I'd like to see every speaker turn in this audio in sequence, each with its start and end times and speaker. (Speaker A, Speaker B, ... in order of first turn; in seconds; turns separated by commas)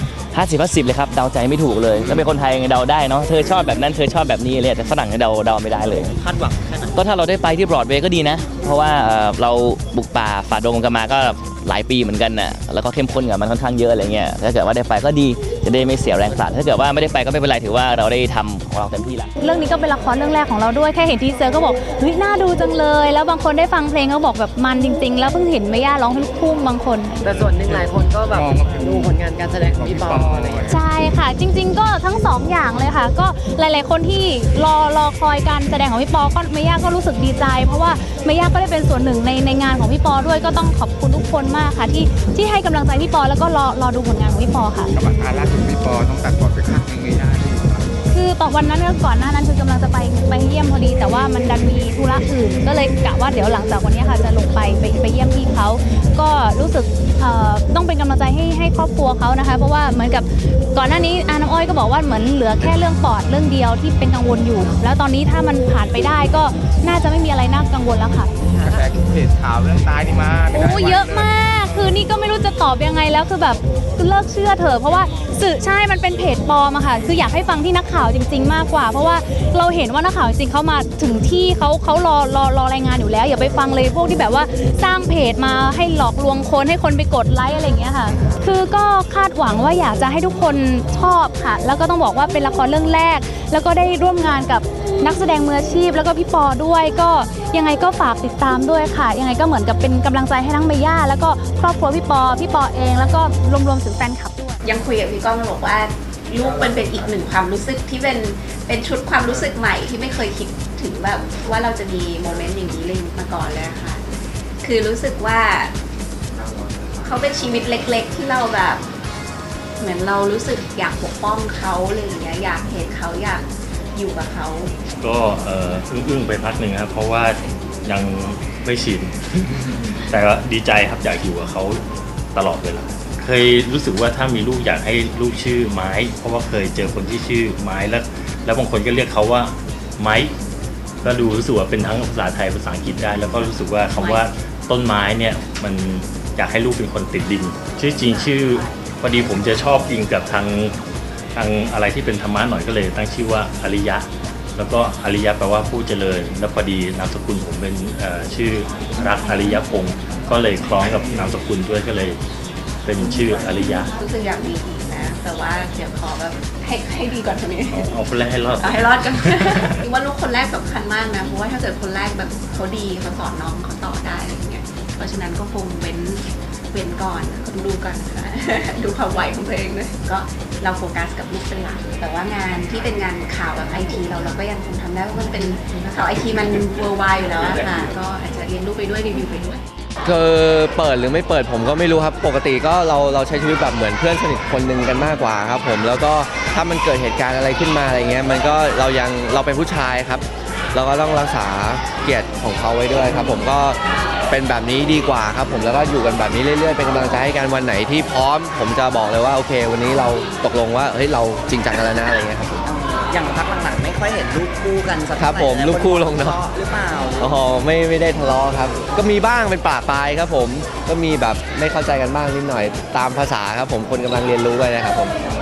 Speaker A: 0.3-6.1, Speaker B: 6.2-6.9, Speaker A: 6.9-19.3, Speaker C: 19.4-27.2, Speaker D: 27.2-30.7, Speaker E: 27.2-29.2, Speaker E: 29.7-30.8, Speaker C: 30.7-44.9, Speaker E: 44.9-48.0, Speaker C: 48.1-68.8, Speaker E: 68.6-71.3, Speaker C: 70.5-104.6, Speaker F: 104.6-114.0, Speaker F: 114.6-115.7, Speaker F: 117.0-118.8, Speaker F: 119.8-124.7, Speaker G: 125.0-131.8, Speaker G: 132.3-140.3, Speaker G: 141.0-150.8, Speaker F: 143.9-144.2, Speaker G: 151.3-162.2, Speaker G: 162.8-163.9, Speaker F: 163.0-167.8, Speaker G: 167.7-169.8, Speaker F: 168.6-189.6, Speaker H: 190.1-203.8, Speaker H: 204.3-212.6, Speaker B: 212.7-217.4, Speaker H: 215.2-216.4, Speaker H: 217.2-225.2